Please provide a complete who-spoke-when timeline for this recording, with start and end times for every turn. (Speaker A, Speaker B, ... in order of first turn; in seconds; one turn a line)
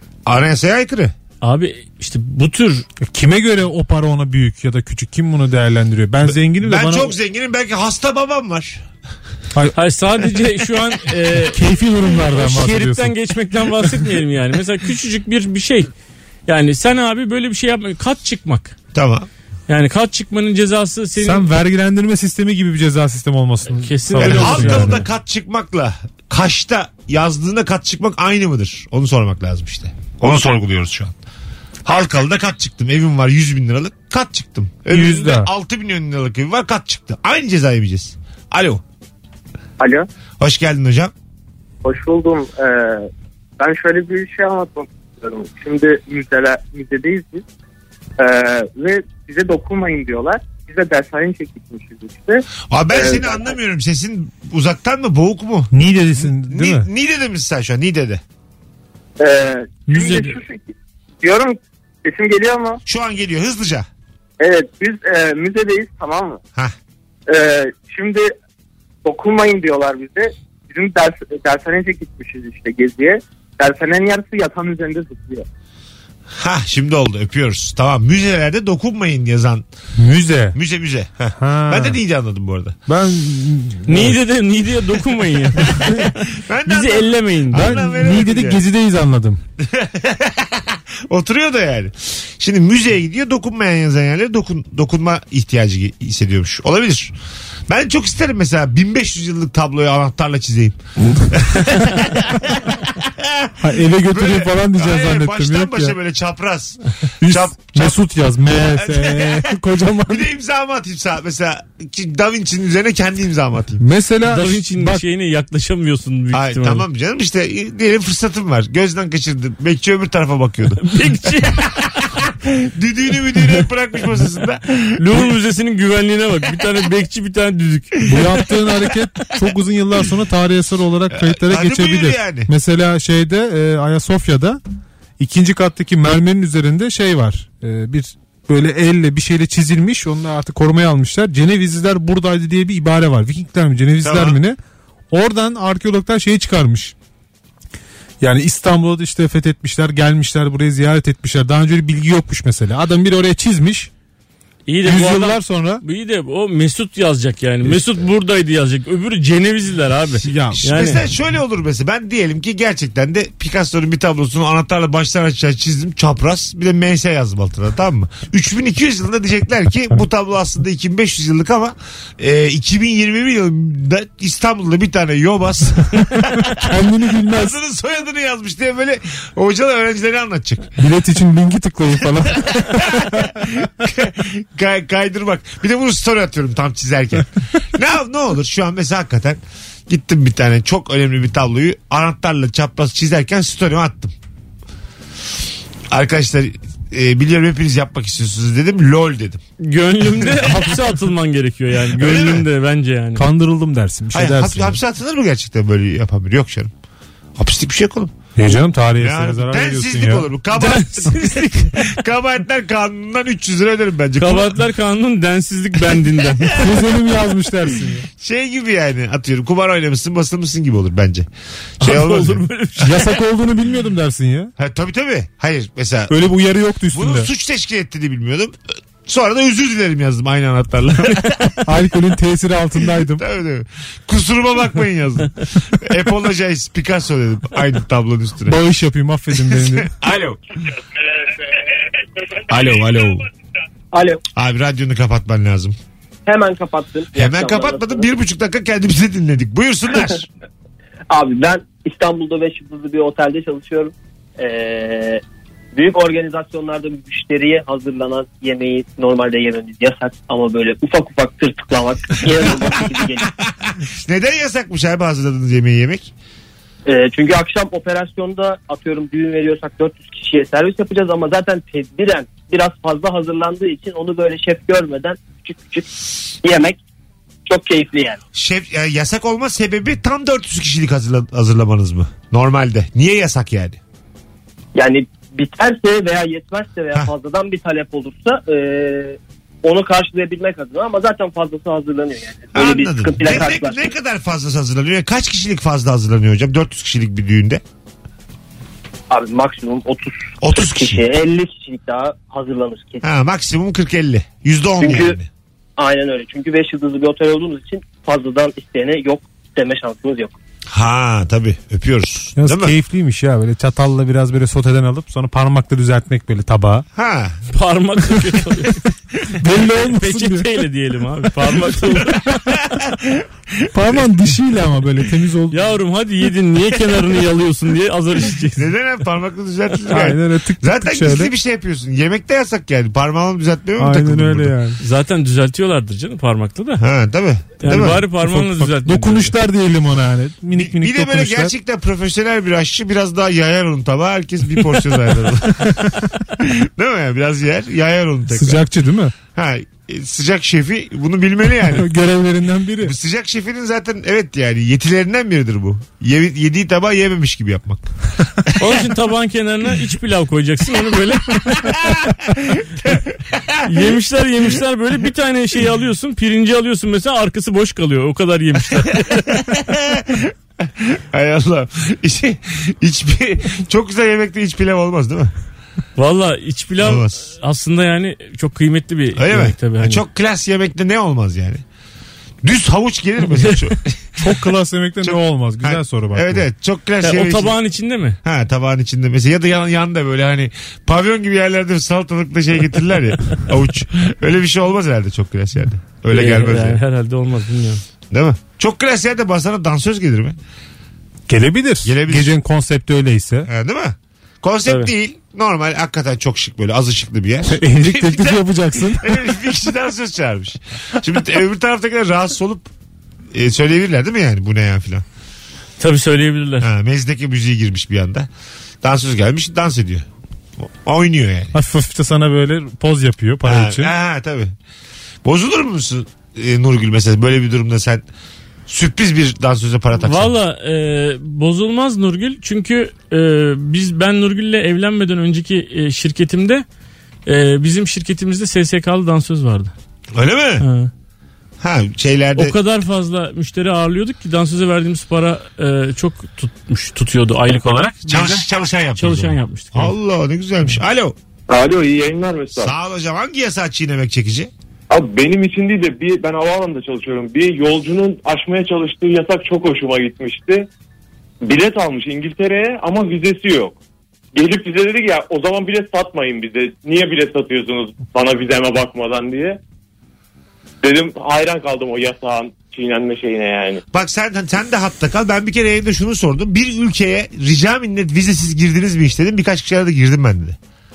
Speaker A: 0.3-1.1
Speaker B: 1.4-2.9
Speaker C: 3.0-7.1
Speaker A: 6.2-8.8
Speaker B: 9.8-11.6
Speaker C: 11.5-13.1
Speaker B: 12.2-15.9
Speaker B: 16.5-18.7
Speaker A: 18.9-19.3
Speaker B: 19.7-21.5
Speaker C: 21.2-25.0
Speaker B: 23.8-25.0
Speaker A: 24.2-31.2
Speaker A: 31.9-38.8
Speaker C: 34.9-35.5
Speaker D: 39.8-40.1
Speaker A: 40.4-41.1
Speaker D: 41.8-47.4
Speaker D: 48.2-53.5
Speaker A: 52.7-58.2
Speaker C: 55.7-56.9
Speaker D: 59.2-62.8
Speaker B: 59.9-60.4
Speaker A: 62.9-63.9
Speaker D: 64.4-66.4
Speaker D: 67.3-68.3
Speaker D: 69.0-75.5
Speaker A: 76.3-79.7
Speaker C: 80.0-80.6
Speaker A: 80.5-82.8
Speaker C: 81.4-82.0
Speaker C: 82.9-84.1
Speaker B: 83.9-86.1
Speaker A: 85.9-88.6
Speaker B: 86.7-87.9
Speaker C: 87.5-89.4
Speaker A: 89.6-97.1
Speaker A: 97.7-100.8
Speaker C: 101.1-101.4
Speaker A: 101.3-108.0
Speaker C: 103.6-105.9
Speaker C: 107.2-110.3
Speaker A: 108.5-109.5
Speaker A: 110.1-113.8
Speaker C: 113.8-115.0
Speaker B: 114.2-116.8
Speaker A: 116.3-120.9
Speaker B: 120.8-121.8
Speaker A: 122.1-125.2
Speaker B: 125.0-128.1
Speaker C: 128.1-134.6
Speaker A: 131.1-132.5
Speaker C: 135.2-144.6
Speaker A: 144.0-144.4
Speaker C: 145.1-146.9
Speaker C: 148.2-153.9
Speaker B: 154.7-161.0
Speaker C: 154.8-155.8
Speaker C: 160.2-160.7
Speaker A: 160.6-176.6
Speaker C: 176.4-177.6
Speaker A: 177.2-180.7
Speaker C: 180.8-183.3
Speaker A: 182.4-194.1
Speaker A: 195.9-199.4
Speaker B: 199.6-203.3
Speaker A: 202.0-202.4
Speaker C: 203.1-204.8
Speaker A: 204.1-206.7
Speaker A: 207.4-208.3
Speaker C: 208.4-210.3
Speaker A: 209.0-214.6
Speaker B: 210.6-211.9
Speaker B: 214.2-216.6
Speaker C: 216.5-218.1
Speaker A: 218.2-221.3
Speaker A: 221.8-222.4
Speaker B: 221.8-223.1
Speaker C: 222.8-224.5
Speaker A: 224.6-226.2
Speaker C: 226.1-227.3
Speaker A: 226.9-231.6
Speaker C: 231.6-233.2
Speaker A: 233.2-238.6
Speaker C: 238.5-239.9
Speaker A: 239.5-240.7
Speaker A: 242.4-243.3
Speaker E: 243.9-244.2
Speaker A: 244.4-245.8
Speaker E: 246.3-248.1
Speaker A: 247.1-250.3
Speaker E: 251.1-255.2
Speaker E: 255.8-263.3
Speaker A: 263.6-266.1
Speaker E: 266.9-275.9
Speaker E: 276.4-276.8
Speaker E: 277.4-278.2
Speaker A: 278.3-283.8
Speaker E: 284.8-293.9
Speaker A: 292.6-297.6
Speaker E: 299.1-303.0
Speaker A: 300.4-301.1
Speaker A: 303.0-305.3
Speaker E: 304.8-305.2
Speaker E: 305.8-310.4
Speaker A: 310.7-312.8
Speaker C: 312.4-316.9
Speaker A: 316.9-317.4
Speaker B: 317.5-318.9
Speaker C: 319.4-320.5
Speaker B: 319.8-322.3
Speaker A: 322.2-324.1
Speaker C: 323.7-325.7
Speaker B: 325.5-328.7
Speaker A: 328.6-334.6
Speaker C: 329.9-331.3
Speaker C: 333.8-334.8
Speaker B: 334.8-336.8
Speaker A: 336.8-338.1
Speaker B: 337.6-339.3
Speaker C: 338.1-341.5
Speaker A: 340.6-348.6
Speaker C: 348.3-349.1
Speaker A: 349.3-351.9
Speaker C: 351.7-352.9
Speaker A: 352.8-357.9
Speaker B: 358.6-361.8
Speaker A: 361.8-363.6
Speaker B: 363.6-369.4
Speaker A: 369.3-375.3
Speaker B: 376.0-380.0
Speaker A: 376.8-377.2
Speaker A: 379.1-381.6
Speaker A: 382.4-384.3
Speaker C: 384.2-386.4
Speaker A: 385.0-387.6
Speaker B: 387.0-388.2
Speaker A: 388.2-396.8
Speaker B: 396.1-397.8
Speaker A: 398.1-400.4
Speaker C: 401.3-403.5
Speaker A: 401.8-402.3
Speaker A: 403.4-412.7
Speaker C: 407.5-409.1
Speaker A: 413.3-415.1
Speaker B: 415.8-416.7
Speaker A: 416.6-418.3
Speaker A: 418.8-420.1
Speaker A: 420.6-421.6
Speaker C: 421.5-423.9
Speaker A: 423.4-424.5
Speaker A: 425.2-428.0
Speaker A: 428.7-430.4
Speaker B: 430.0-436.6
Speaker B: 437.3-439.7
Speaker A: 440.1-440.6
Speaker B: 440.6-440.9
Speaker A: 441.6-442.6
Speaker B: 442.4-449.9
Speaker A: 448.1-451.1
Speaker F: 451.5-452.8
Speaker A: 452.6-454.5
Speaker F: 454.9-460.7
Speaker F: 461.4-463.8
Speaker F: 464.4-469.6
Speaker F: 470.8-473.8
Speaker A: 473.9-480.6